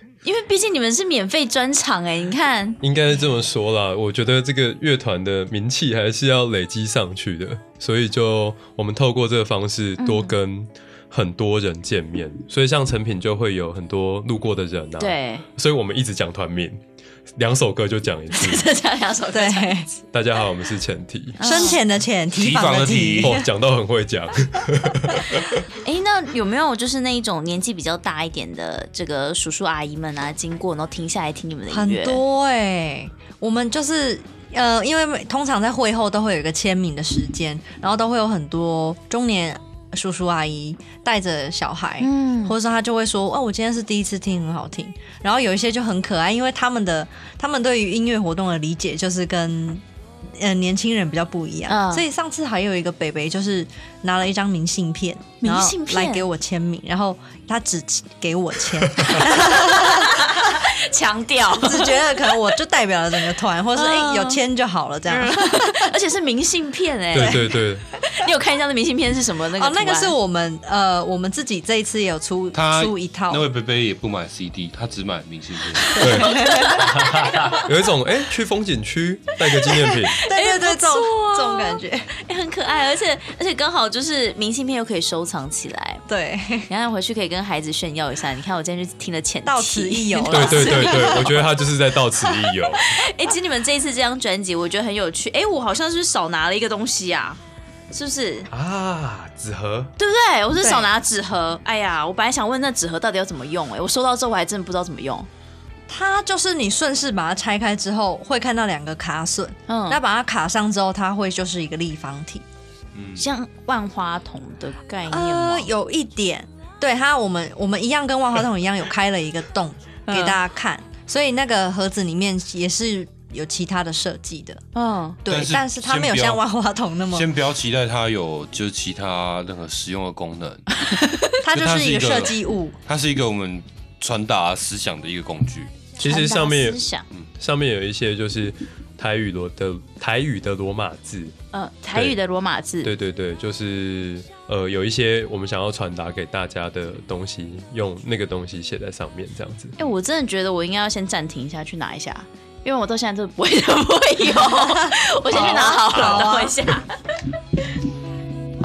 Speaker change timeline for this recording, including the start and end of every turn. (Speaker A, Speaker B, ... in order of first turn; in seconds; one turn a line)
Speaker A: 0.2-2.8
Speaker B: 2.8-16.8
Speaker A: 10.0-10.3
Speaker A: 15.0-15.4
Speaker B: 17.4-18.6
Speaker A: 18.3-20.0
Speaker C: 19.3-19.9
Speaker B: 20.1-21.7
Speaker A: 21.4-21.8
Speaker C: 21.4-23.5
Speaker D: 22.3-23.4
Speaker B: 23.2-25.6
Speaker A: 25.8-32.2
Speaker C: 31.7-60.4
Speaker A: 42.0-42.5
Speaker A: 51.7-52.1
Speaker A: 55.4-56.3
Speaker A: 59.1-62.5
Speaker C: 61.6-65.9
Speaker A: 63.7-64.4
Speaker A: 65.1-67.4
Speaker B: 67.1-67.9
Speaker C: 67.1-67.5
Speaker A: 68.0-70.2
Speaker C: 69.5-73.5
Speaker D: 72.5-76.0
Speaker A: 75.9-77.6
Speaker C: 76.0-76.9
Speaker B: 76.0-76.3
Speaker B: 77.5-80.2
Speaker C: 80.2-82.1
Speaker A: 80.3-86.0
Speaker C: 86.1-86.7
Speaker A: 86.7-91.3
Speaker C: 89.4-91.4
Speaker B: 90.3-93.0
Speaker A: 92.8-97.4
Speaker A: 97.9-98.5
Speaker B: 98.5-99.9
Speaker A: 100.0-105.3
Speaker C: 100.6-100.9
Speaker C: 105.9-112.5
Speaker A: 109.7-110.0
Speaker D: 112.9-113.2
Speaker A: 113.2-115.7
Speaker C: 115.1-124.6
Speaker A: 120.1-120.4
Speaker A: 124.7-125.2
Speaker C: 125.2-127.3
Speaker D: 125.2-126.4
Speaker D: 127.1-130.6
Speaker A: 130.9-131.3
Speaker C: 131.4-132.8
Speaker D: 131.5-135.7
Speaker A: 136.0-137.1
Speaker B: 136.0-136.8
Speaker B: 137.4-141.4
Speaker A: 141.5-142.9
Speaker B: 142.8-149.7
Speaker A: 149.8-156.9
Speaker C: 154.8-156.6